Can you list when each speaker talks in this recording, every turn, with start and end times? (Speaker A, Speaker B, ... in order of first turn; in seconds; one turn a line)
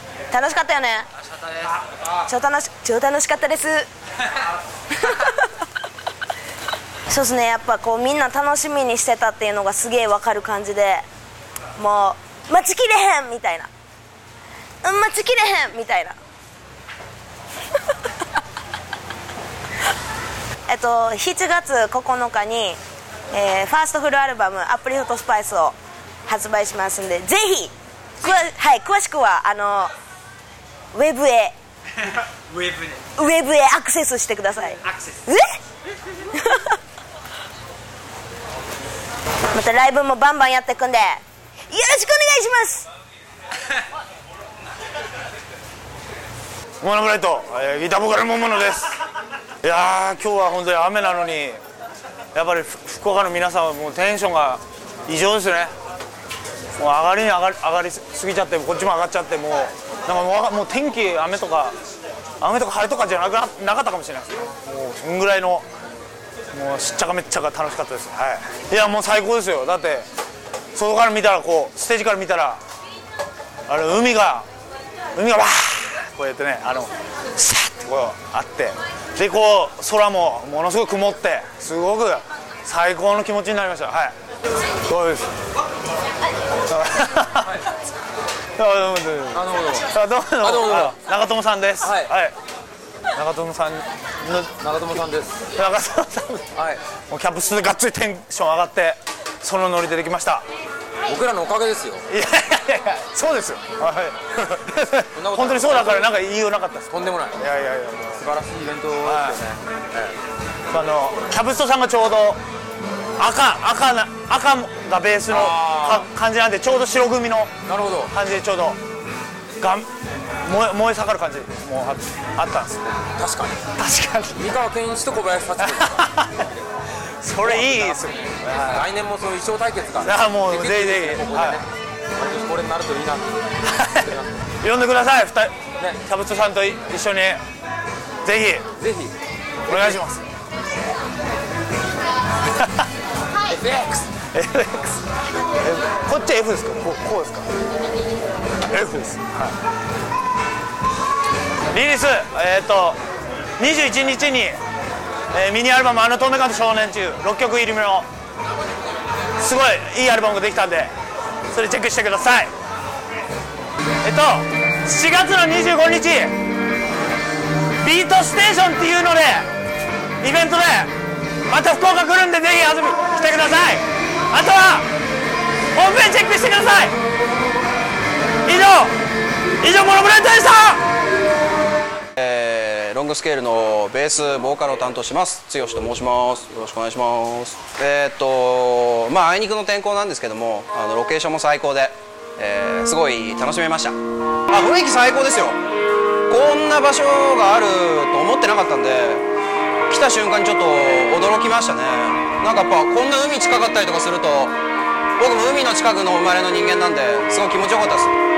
Speaker A: 0.3-1.1
Speaker A: 2.3-3.9
Speaker A: 5.0-5.4
Speaker A: 7.1-11.0
Speaker A: 11.8-13.7
Speaker A: 14.8-16.1
Speaker A: 20.7-22.8
Speaker A: 23.3-25.8
Speaker A: 26.3-29.9
Speaker A: 30.9-31.5
Speaker A: 33.1-35.6
Speaker A: 36.3-36.8
Speaker A: 39.5-42.9
Speaker B: 46.8-48.9
Speaker B: 49.6-51.6
Speaker B: 52.3-55.7
Speaker B: 56.8-61.8
Speaker B: 62.4-65.7
Speaker B: 66.5-70.0
Speaker B: 70.7-72.6
Speaker B: 73.7-74.5
Speaker B: 75.2-84.1
Speaker B: 84.9-85.3
Speaker B: 86.7-87.6
Speaker B: 88.5-92.3
Speaker C: 89.3-89.9
Speaker C: 90.4-91.0
Speaker C: 91.8-92.1
Speaker B: 93.1-94.5
Speaker C: 94.6-95.4
Speaker B: 95.5-100.4
Speaker C: 96.5-96.8
Speaker C: 101.1-102.0
Speaker B: 102.1-108.2
Speaker C: 105.1-106.1
Speaker C: 106.9-107.4
Speaker C: 108.2-110.1
Speaker B: 109.0-109.4
Speaker B: 110.7-112.4
Speaker B: 113.2-117.5
Speaker C: 115.3-116.0
Speaker C: 117.7-118.1
Speaker B: 118.0-118.8
Speaker B: 119.6-119.9
Speaker B: 120.4-123.0
Speaker C: 123.2-123.6
Speaker B: 123.8-124.4
Speaker C: 124.3-125.9
Speaker B: 125.7-126.5
Speaker B: 127.2-128.6
Speaker C: 127.5-127.9
Speaker C: 128.4-131.6
Speaker B: 130.0-131.6
Speaker C: 132.2-134.3
Speaker B: 134.6-137.4
Speaker B: 138.2-138.7
Speaker C: 138.8-139.1
Speaker B: 139.7-140.2
Speaker C: 139.7-140.0
Speaker B: 142.6-142.8
Speaker C: 143.5-144.1
Speaker B: 144.2-147.5
Speaker B: 148.7-149.5
Speaker B: 151.7-153.0
Speaker B: 153.6-154.6
Speaker B: 155.3-158.1
Speaker B: 159.4-160.9
Speaker B: 161.5-162.5
Speaker B: 164.0-166.3
Speaker B: 167.8-169.5
Speaker B: 170.2-170.9
Speaker B: 171.5-174.9
Speaker B: 175.7-176.9
Speaker B: 178.4-178.9
Speaker B: 179.6-180.8
Speaker D: 182.2-194.0
Speaker D: 194.5-195.6
Speaker D: 196.3-199.2
Speaker D: 199.9-204.6
Speaker D: 205.2-208.2